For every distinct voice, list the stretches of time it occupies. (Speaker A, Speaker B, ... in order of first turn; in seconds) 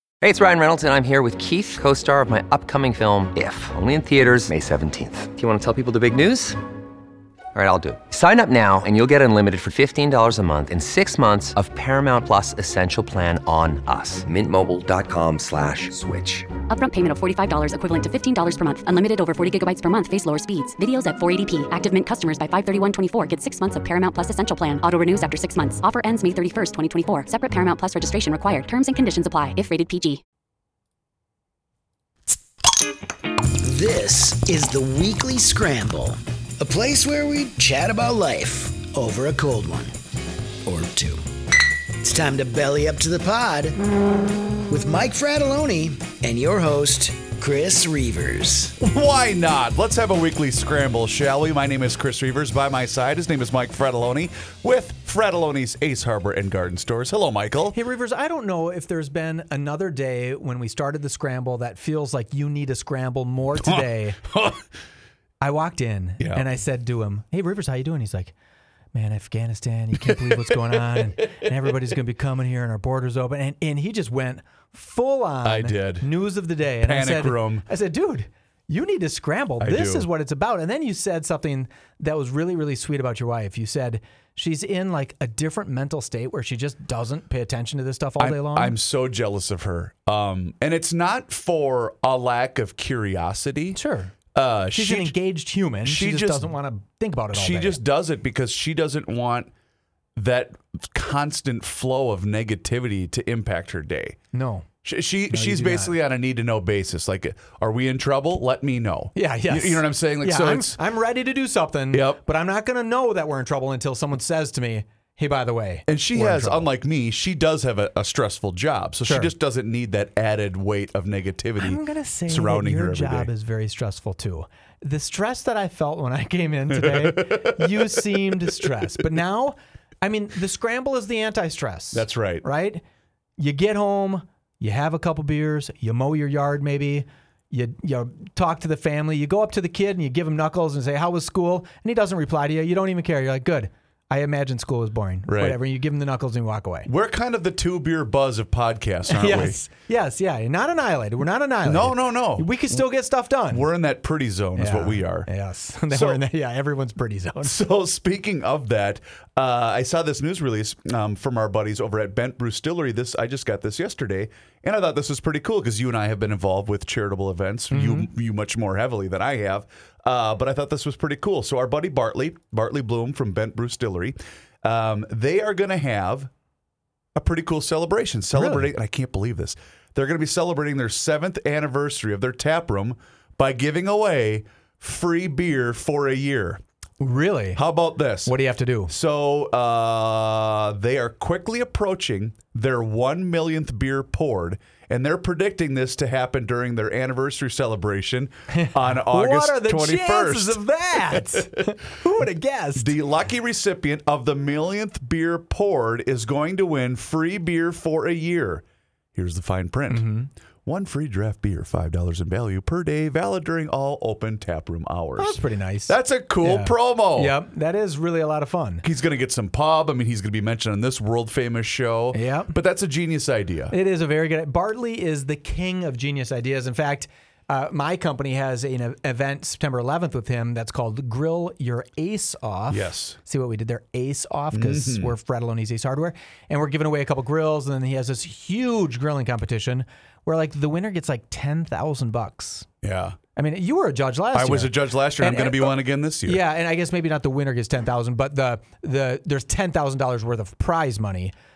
Speaker A: 0.2-6.6, 7.5-16.5
Speaker B: 16.7-30.2
Speaker C: 33.6-39.9, 40.6-43.8, 44.7-48.8
Speaker D: 48.8-57.8, 63.5-64.6, 66.2-66.5, 70.0-71.6, 75.4-76.1, 76.8-77.7, 79.6-80.1, 88.2-93.8, 94.3-95.2, 95.8-96.5, 97.3-99.5, 100.2-104.2, 104.8-110.8, 111.9-112.2, 115.9-123.3, 126.7-128.7, 131.9-132.5, 145.3-145.6, 146.8-149.6, 151.6-152.8, 153.5-155.3, 155.9-156.2, 157.4-176.3, 177.2-186.6, 187.6-188.4, 188.9-201.7, 202.8-208.6, 209.2-210.1, 210.7-217.3, 218.8-223.7, 232.7-233.2, 234.5-235.2, 242.8-243.2, 244.3-246.4
Speaker E: 57.7-64.2, 65.4-68.3, 68.9-88.8, 93.7-94.1, 94.7-97.8, 104.3-104.7, 105.3-105.9, 109.2-116.7, 119.0-119.3, 121.6-132.8, 133.4-146.9, 149.1-153.7, 154.6-157.6, 167.7-168.1, 178.3-178.7, 187.0-187.6, 188.2-188.9, 198.5-203.0, 209.9-210.3, 215.2-218.9, 222.1-222.5, 223.7-242.7, 243.4-251.3